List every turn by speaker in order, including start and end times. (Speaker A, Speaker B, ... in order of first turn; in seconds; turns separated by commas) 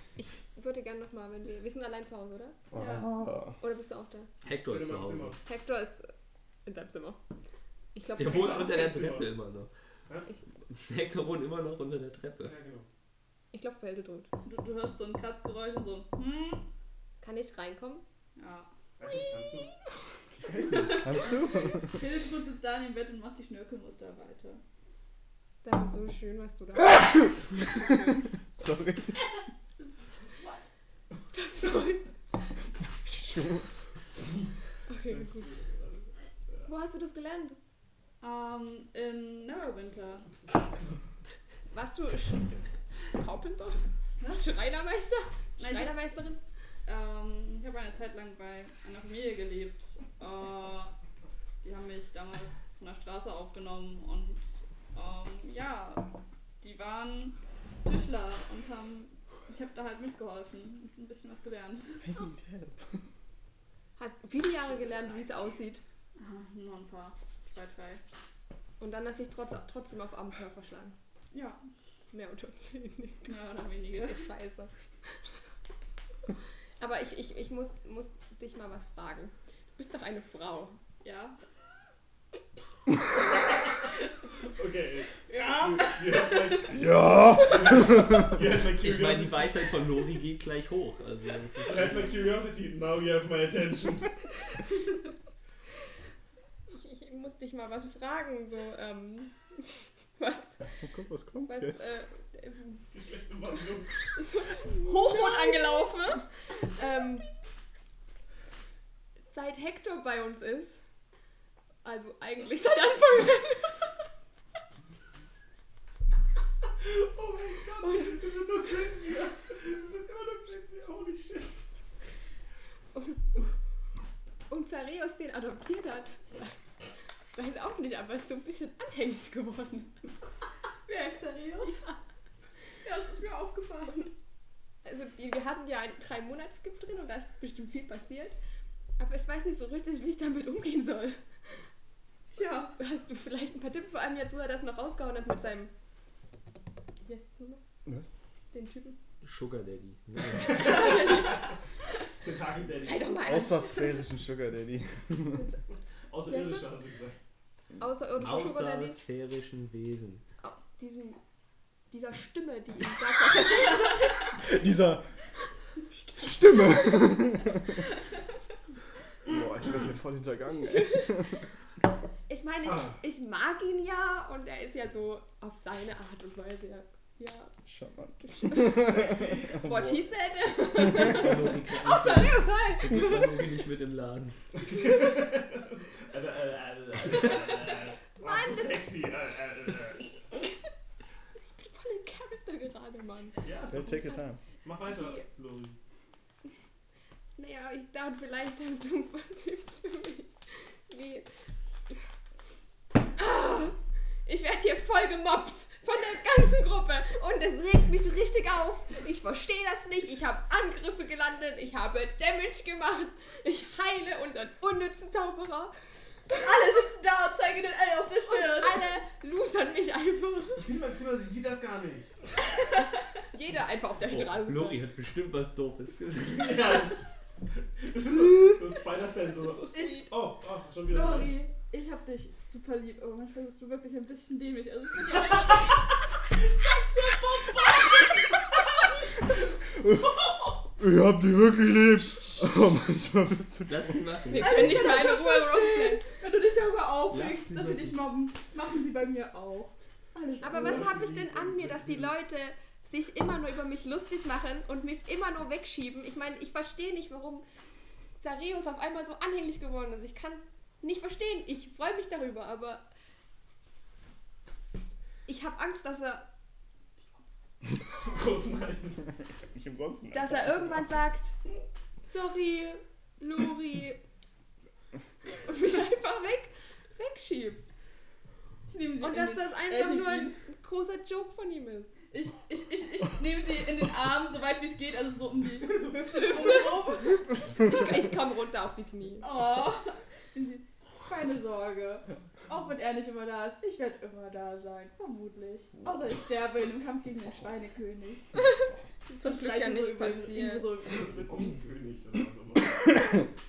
Speaker A: 0.2-2.6, Speaker B: 2.7-3.6, Speaker C: 2.7-3.1, Speaker A: 3.6-4.3, Speaker D: 4.4-5.4, Speaker E: 4.5-5.4, Speaker A: 5.4-6.1, Speaker A: 6.7-7.2, Speaker A: 7.9-8.9, Speaker D: 8.1-9.7, Speaker E: 8.2-9.4, Speaker E: 10.1-10.3, Speaker D: 10.8-12.5, Speaker E: 12.4-12.9, Speaker A: 13.5-14.3, Speaker C: 14.4-16.6, Speaker A: 17.2-18.0, Speaker C: 18.4-18.7, Speaker E: 19.0-19.7, Speaker B: 20.4-22.0, Speaker E: 20.6-20.9, Speaker C: 20.7-24.6, Speaker A: 25.6-27.1, Speaker B: 26.8-28.0, Speaker B: 28.6-29.2, Speaker A: 31.3-32.1, Speaker B: 33.0-33.6, Speaker A: 34.9-35.5, Speaker E: 35.1-36.7, Speaker A: 36.7-37.6, Speaker C: 38.2-40.3, Speaker A: 41.7-42.6, Speaker A: 43.1-46.4, Speaker C: 44.2-44.5, Speaker C: 45.6-46.0, Speaker C: 46.9-50.9, Speaker C: 51.6-56.1, Speaker C: 56.6-62.0, Speaker B: 62.0-63.0, Speaker A: 64.0-65.8, Speaker C: 66.2-68.0, Speaker A: 68.8-70.9, Speaker C: 71.3-71.6, Speaker A: 72.1-74.7, Speaker C: 73.2-74.3, Speaker A: 76.8-80.8, Speaker C: 81.0-81.4, Speaker E: 84.4-86.9, Speaker C: 85.3-86.3, Speaker B: 86.7-88.4, Speaker E: 87.4-89.7, Speaker D: 88.8-92.3, Speaker E: 91.6-94.2, Speaker A: 96.7-100.6, Speaker B: 100.8-101.9, Speaker A: 101.5-102.8, Speaker E: 102.9-104.1, Speaker A: 104.1-107.3, Speaker C: 104.8-105.9, Speaker A: 109.3-110.8, Speaker A: 111.8-113.9, Speaker E: 116.8-121.5, Speaker A: 117.8-118.2, Speaker A: 122.9-123.5, Speaker A: 124.5-126.5, Speaker A: 127.3-129.9, Speaker C: 130.9-131.9, Speaker C: 132.8-134.1, Speaker A: 134.8-138.4, Speaker A: 139.0-141.2, Speaker C: 142.3-142.8, Speaker A: 142.8-145.7, Speaker A: 147.1-147.6, Speaker A: 148.5-149.0, Speaker D: 149.2-151.0, Speaker E: 150.4-151.4, Speaker A: 150.6-151.4, Speaker E: 152.2-153.2, Speaker A: 152.8-154.0, Speaker B: 153.2-155.4, Speaker E: 156.1-157.2, Speaker A: 156.3-156.7, Speaker A: 157.8-159.1, Speaker D: 158.2-160.2, Speaker A: 160.4-161.2, Speaker A: 161.9-164.3, Speaker B: 164.4-165.1, Speaker A: 166.1-167.2, Speaker B: 166.2-167.8, Speaker B: 169.2-171.4, Speaker A: 170.6-171.4, Speaker A: 172.3-177.5, Speaker B: 177.6-180.1, Speaker A: 178.2-178.9, Speaker E: 178.7-179.7, Speaker A: 179.5-183.6, Speaker D: 180.8-184.4, Speaker B: 180.9-181.2, Speaker E: 184.6-190.1, Speaker A: 188.2-188.8, Speaker A: 191.4-193.4, Speaker E: 193.4-195.8, Speaker B: 193.7-194.4, Speaker A: 194.9-195.2, Speaker A: 197.4-201.3, Speaker A: 203.2-215.7, Speaker C: 216.3-218.8, Speaker A: 218.3-220.7, Speaker E: 220.6-222.1, Speaker A: 222.4-224.8, Speaker D: 224.1-226.8, Speaker E: 226.2-231.4, Speaker A: 229.4-230.1, Speaker C: 229.7-230.1, Speaker C: 230.9-238.6, Speaker B: 240.8-244.5, Speaker D: 243.7-244.7, Speaker A: 244.3-246.0, Speaker C: 244.4-250.9, Speaker D: 247.1-247.9, Speaker A: 250.4-257.4, Speaker E: 250.5-252.1, Speaker A: 258.2-262.9, Speaker A: 265.2-266.2, Speaker E: 267.8-269.1, Speaker B: 269.5-270.9, Speaker A: 270.1-271.4, Speaker A: 272.0-274.0, Speaker A: 275.4-277.6, Speaker C: 278.7-280.4, Speaker A: 279.0-281.9, Speaker C: 282.1-287.3, Speaker E: 285.7-286.3, Speaker A: 286.0-289.3, Speaker C: 289.2-298.3, Speaker A: 299.1-300.7, Speaker C: 299.2-301.7, Speaker E: 301.0-303.3